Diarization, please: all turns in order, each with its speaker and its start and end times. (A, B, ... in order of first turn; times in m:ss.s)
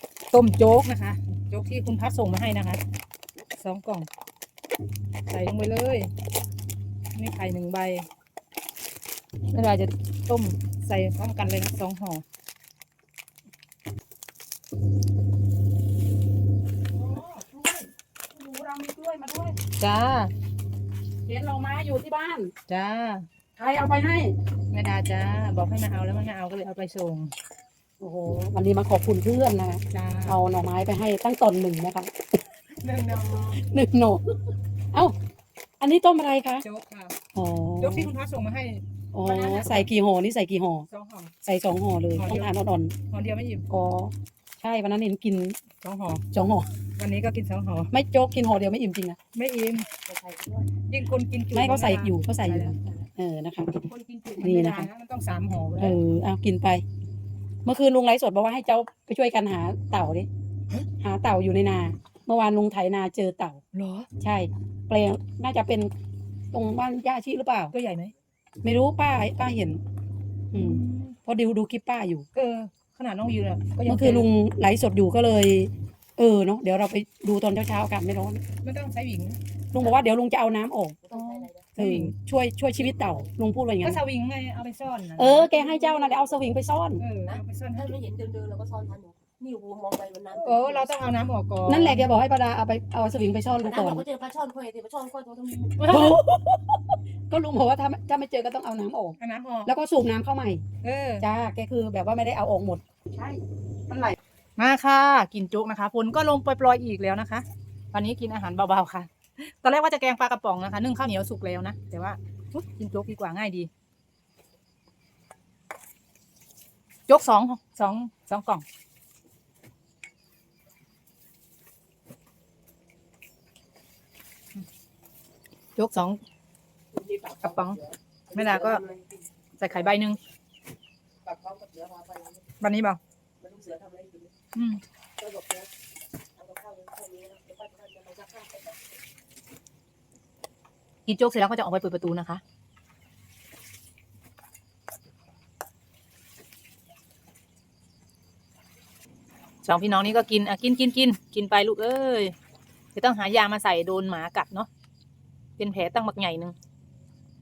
0:00.3-0:02.8 A
0:03.6-0:04.1 A
0:05.3-0:06.1 A
0:07.1-0:08.1 A
0:09.5-0:12.2 A
0:17.0-0:19.6 B
0:19.8-0:20.3 A
0:21.2-0:22.5 B
0:22.7-0:23.2 A
0:23.6-0:24.4 B
0:24.7-0:27.3 A
0:28.0-0:32.1 B
0:29.9-0:30.4 A
0:32.8-0:33.6 A
0:33.3-0:34.2 B
0:35.8-0:36.6 B
0:36.6-0:37.1 A
0:37.3-0:38.1 B
0:37.8-0:39.9 A
0:39.1-0:40.9 B
0:40.9-0:41.3 A
0:41.4-0:42.9 B
0:42.1-0:42.5 A
0:43.1-0:43.7 A
0:43.7-0:45.6 B
0:45.8-0:46.2 A
0:46.3-0:46.7 B
0:47.0-0:47.9 A
0:47.9-0:49.2 B
0:49.3-0:49.9 A
0:50.1-0:50.6 C
0:50.8-0:52.8 A
0:51.5-0:54.9 B
0:53.9-0:56.0 A
0:55.8-0:56.8 B
0:57.6-1:00.3 B
1:01.0-1:03.6 B
1:03.7-1:04.1 A
1:04.2-1:05.9 B
1:06.5-1:07.7 B
1:07.7-1:08.1 A
1:08.6-1:09.8 B
1:10.5-1:12.3 B
1:10.5-1:11.2 A
1:12.3-1:14.3 A
1:13.8-1:18.4 B
1:18.6-1:19.4 A
1:19.7-1:21.0 B
1:21.0-1:21.7 C
1:21.1-1:22.1 A
1:21.8-1:24.0 B
1:23.8-1:25.5 A
1:25.2-1:27.0 B
1:25.5-1:26.4 C
1:27.0-1:27.8 A
1:27.2-1:30.9 C
1:30.3-1:32.1 A
1:31.6-1:34.1 B
1:33.6-1:35.9 C
1:35.8-1:36.2 A
1:35.9-1:40.6 B
1:39.2-1:39.7 A
1:40.8-1:41.2 A
1:41.2-1:43.4 B
1:43.9-1:44.2 B
1:44.6-1:53.7 A
1:57.1-1:58.6 A
2:05.8-2:06.2 A
2:06.9-2:07.7 C
2:07.4-2:07.8 A
2:08.3-2:08.8 A
2:08.3-2:09.0 C
2:09.6-2:10.2 A
2:11.2-2:12.4 C
2:12.6-2:13.0 A
2:13.4-2:14.3 C
2:14.5-2:14.8 A
2:15.2-2:15.7 C
2:16.4-2:18.7 C
2:21.0-2:22.4 A
2:29.6-2:32.3 A
2:32.9-2:34.7 A
2:35.6-2:36.5 A